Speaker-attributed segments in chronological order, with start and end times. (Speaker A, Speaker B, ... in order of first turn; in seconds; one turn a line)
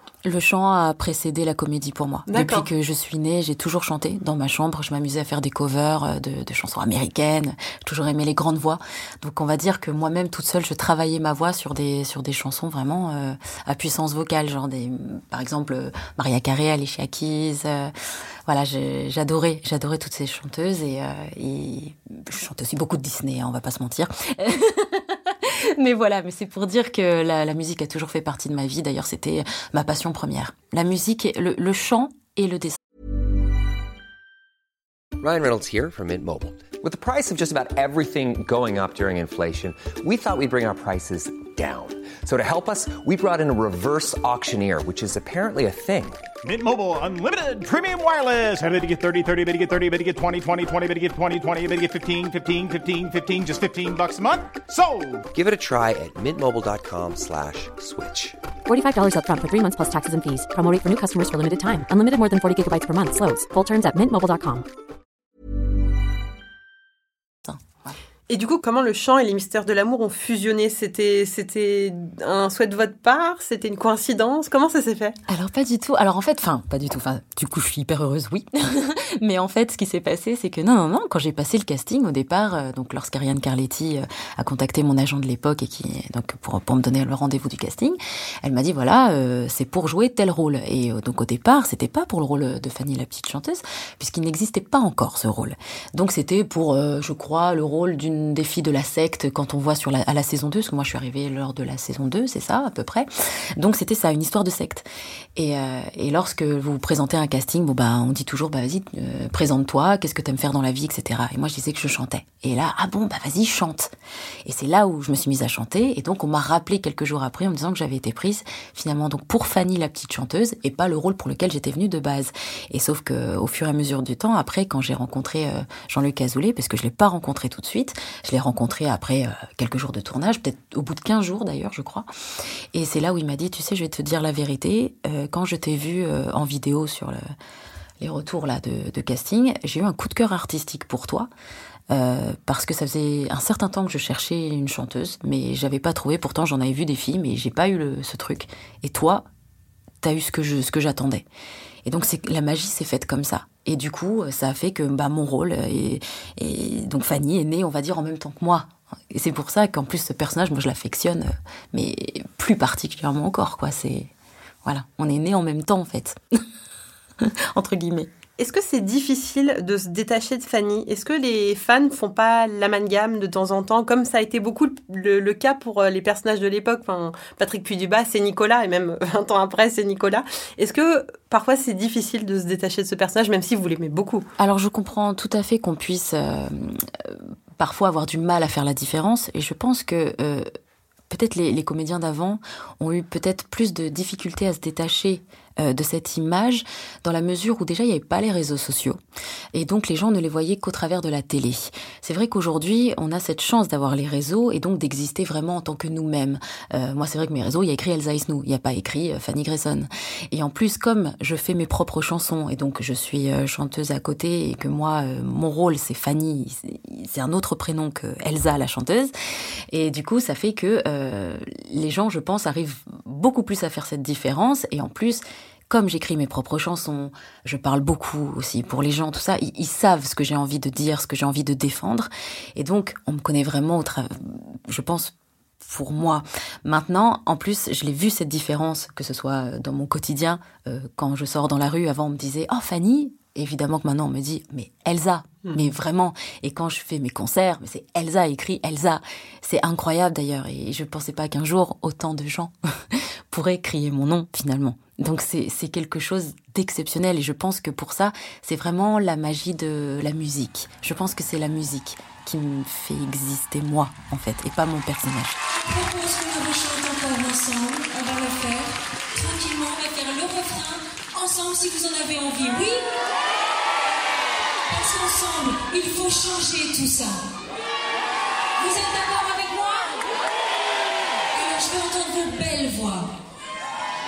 Speaker A: 0.2-17.9
Speaker B: 2.3-2.6
Speaker A: 18.5-32.8
Speaker C: 35.2-46.2
Speaker D: 46.4-55.2
Speaker C: 55.3-58.4
Speaker E: 58.7-64.6
Speaker A: 67.5-68.0
Speaker B: 68.3-75.2
Speaker A: 75.3-113.9
Speaker A: 114.5-132.1
Speaker A: 132.7-137.2
Speaker A: 138.0-141.3
Speaker A: 141.9-149.2
Speaker A: 150.0-151.2
Speaker A: 151.8-164.1
Speaker A: 164.6-166.2
Speaker A: 167.2-168.1
Speaker B: 168.4-184.3
Speaker A: 184.4-190.5
Speaker A: 191.1-199.0
Speaker A: 199.5-219.1
Speaker A: 219.7-265.4
Speaker F: 265.6-272.9
Speaker F: 274.7-277.2
Speaker F: 278.6-279.9
Speaker F: 281.3-283.1